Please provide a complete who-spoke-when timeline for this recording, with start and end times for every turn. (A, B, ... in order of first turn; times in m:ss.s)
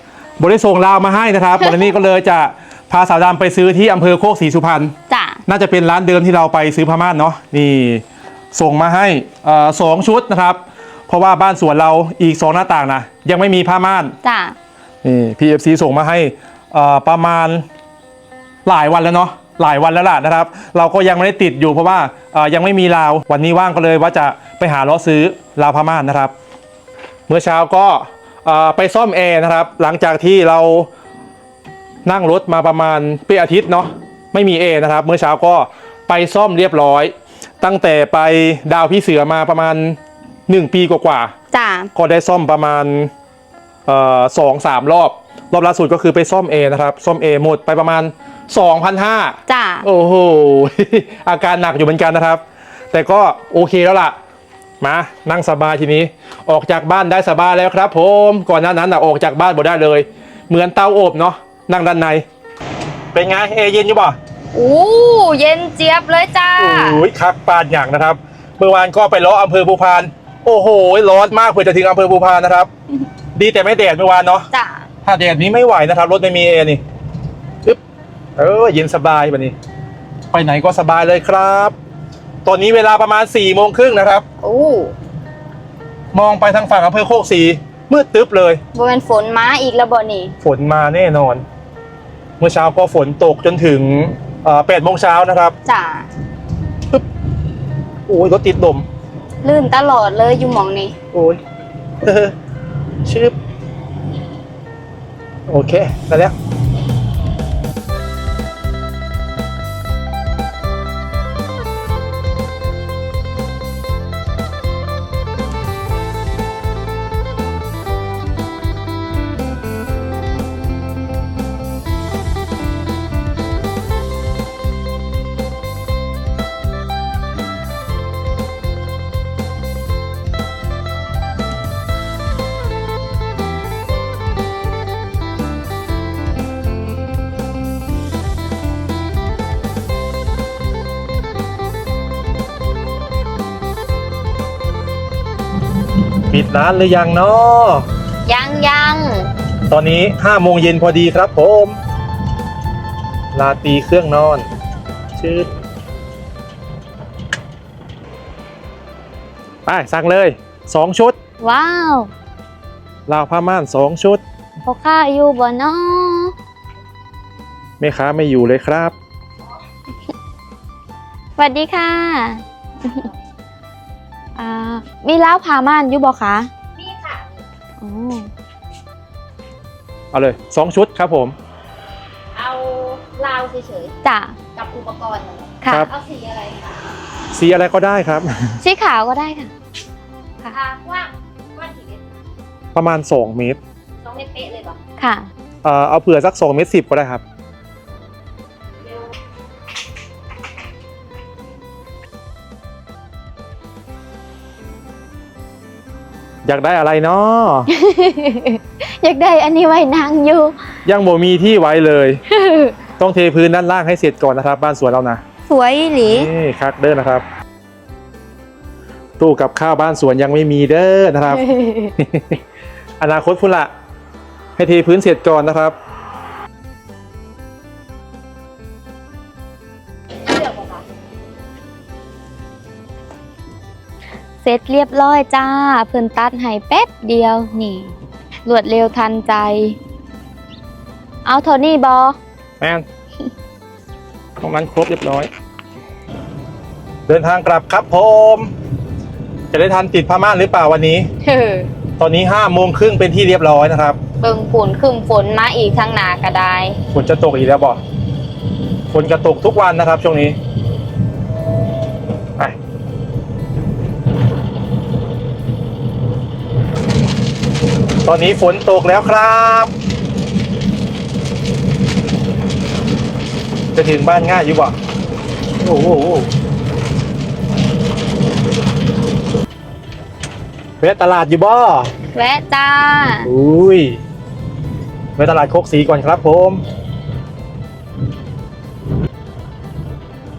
0:00.4-0:05.0 A
0:05.1-0:05.4 B
0:05.5-0:14.2 A
0:14.2-0:14.6 B
0:15.0-0:17.7 A
0:18.6-0:26.3 A
0:27.3-0:30.9 A
0:32.0-0:41.3 A
0:41.5-0:41.9 B
0:42.0-0:43.1 A
0:43.9-0:54.2 A
0:49.5-0:49.9 B
0:54.8-1:02.2 A
1:03.1-1:04.2 A
1:04.5-1:07.0 B
1:06.6-1:12.7 A
1:13.4-1:14.5 A
1:14.5-1:14.9 B
1:15.0-1:16.8 A
1:18.4-1:19.6 A
1:20.3-1:21.8 A
1:22.4-1:24.2 A
1:24.4-1:24.9 B
1:26.1-1:28.6 A
1:28.7-1:30.3 B
1:30.4-1:31.4 A
1:32.4-1:35.6 A
1:35.7-1:36.1 B
1:38.1-1:38.9 A
1:39.4-1:41.0 B
1:41.1-1:41.4 A
1:42.0-1:42.4 A
1:43.0-1:43.4 A
1:45.5-1:46.4 A
2:26.3-2:27.9 A
2:28.3-2:29.3 B
2:29.7-2:31.8 A
2:33.3-2:34.5 A
2:35.2-2:35.5 A
2:39.7-2:41.2 A
2:41.4-2:42.1 B
2:43.1-2:44.2 A
2:44.6-2:46.3 B
2:47.8-2:49.0 A
2:51.4-2:53.1 B
2:54.4-2:56.5 B
2:56.8-2:57.4 C
2:57.8-2:58.3 B
3:00.1-3:01.4 A
3:02.4-3:03.9 C
3:04.0-3:04.4 B
3:04.6-3:06.8 C
3:05.6-3:05.9 B
3:07.3-3:08.6 A
3:08.6-3:09.5 B
3:10.5-3:12.1 C
3:12.7-3:13.6 A
3:14.0-3:14.8 C
3:15.0-3:15.3 B
3:15.6-3:17.2 A
3:26.4-3:27.7 A
3:27.7-3:30.6 B
3:30.9-3:32.2 A
3:32.3-3:32.8 B
3:33.0-3:35.2 A
3:35.5-3:36.3 B
3:36.1-3:37.2 A
3:39.2-3:42.4 A
3:41.4-3:41.9 B
3:43.0-3:43.7 A
3:44.6-3:45.8 A
3:54.4-3:57.9 B
3:58.5-3:59.8 B
4:01.2-4:02.2 B
4:02.6-4:02.9 A
4:04.4-4:05.3 A
4:07.1-4:08.5 A
4:09.5-4:11.1 A
4:11.2-4:11.7 B
4:12.0-4:14.0 A
4:14.2-4:16.8 B
4:16.9-4:17.8 A
4:18.9-4:20.4 A
4:28.0-4:29.7 A
4:33.8-4:34.8 A
4:35.6-4:36.3 A
4:40.8-4:41.9 A
4:42.1-4:43.3 B
4:43.2-4:44.0 A
4:45.2-4:46.6 A